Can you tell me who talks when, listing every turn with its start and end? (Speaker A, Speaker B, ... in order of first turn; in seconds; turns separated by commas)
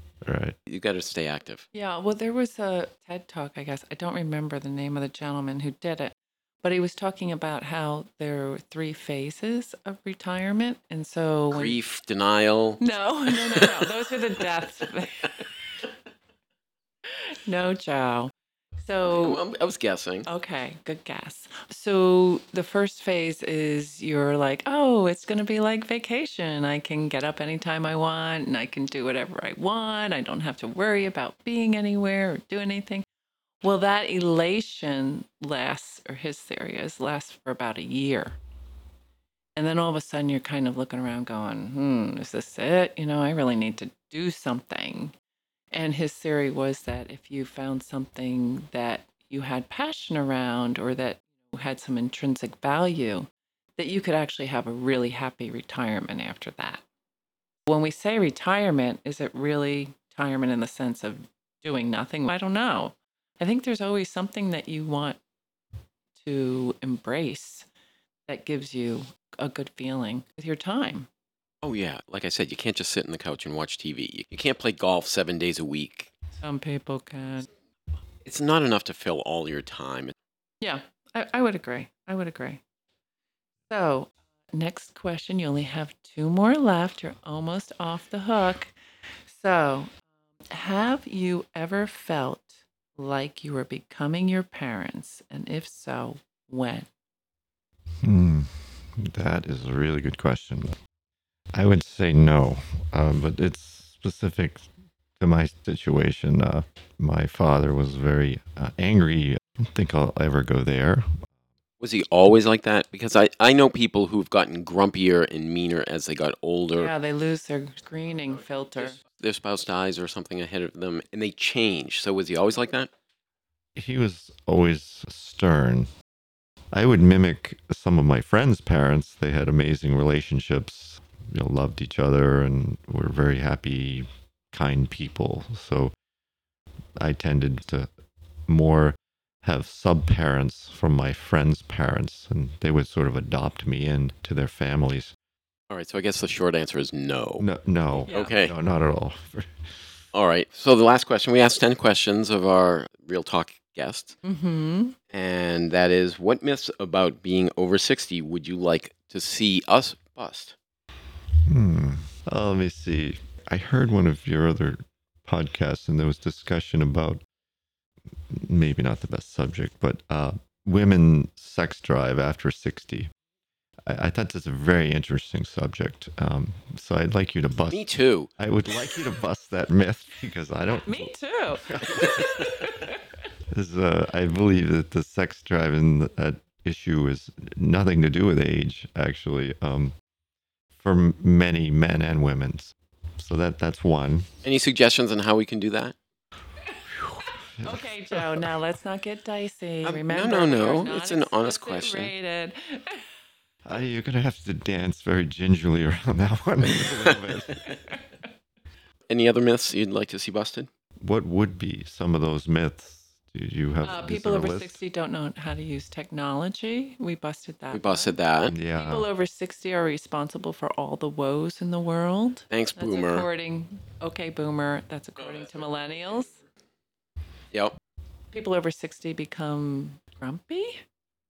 Speaker A: 0.2-0.6, Speaker B: 0.7-1.7, Speaker C: 1.7-11.8, Speaker B: 11.5-14.4, Speaker C: 12.8-15.4, Speaker C: 17.2-18.3, Speaker C: 18.8-19.4, Speaker B: 19.0-20.3, Speaker C: 20.3-33.0, Speaker C: 33.6-38.4, Speaker C: 39.6-45.1, Speaker C: 45.7-56.8, Speaker C: 57.7-65.2, Speaker C: 66.2-67.7, Speaker C: 68.3-71.1, Speaker B: 71.6-76.1, Speaker C: 76.4-77.5, Speaker B: 78.2-80.1, Speaker C: 80.6-82.6, Speaker C: 83.7-88.7, Speaker C: 89.3-89.9, Speaker C: 90.5-96.9, Speaker A: 98.0-100.8, Speaker A: 101.5-111.2, Speaker B: 111.8-116.9, Speaker C: 116.8-119.0, Speaker B: 119.0-122.9, Speaker A: 123.8-125.9, Speaker A: 126.7-135.9, Speaker A: 137.0-137.9, Speaker A: 138.5-145.1, Speaker B: 145.7-147.5, Speaker A: 147.4-149.8, Speaker C: 148.0-148.3, Speaker B: 148.1-148.5, Speaker B: 150.1-154.2, Speaker C: 154.2-155.0, Speaker B: 155.1-160.6, Speaker A: 161.5-167.2, Speaker A: 168.3-173.1, Speaker A: 173.9-177.8, Speaker B: 177.7-178.3, Speaker A: 178.4-181.1, Speaker C: 180.8-183.1, Speaker A: 181.7-182.3, Speaker A: 183.5-189.9, Speaker A: 190.8-194.3, Speaker B: 194.4-195.9, Speaker C: 196.7-203.0, Speaker A: 196.9-198.2, Speaker B: 199.8-202.1, Speaker A: 203.7-207.6, Speaker B: 206.7-207.4, Speaker C: 207.7-208.0, Speaker B: 209.1-210.7, Speaker A: 211.0-214.8, Speaker C: 213.8-218.1, Speaker B: 217.7-218.6, Speaker A: 218.5-219.1, Speaker C: 218.7-226.3, Speaker B: 222.5-223.3, Speaker B: 225.2-226.1, Speaker C: 228.3-230.8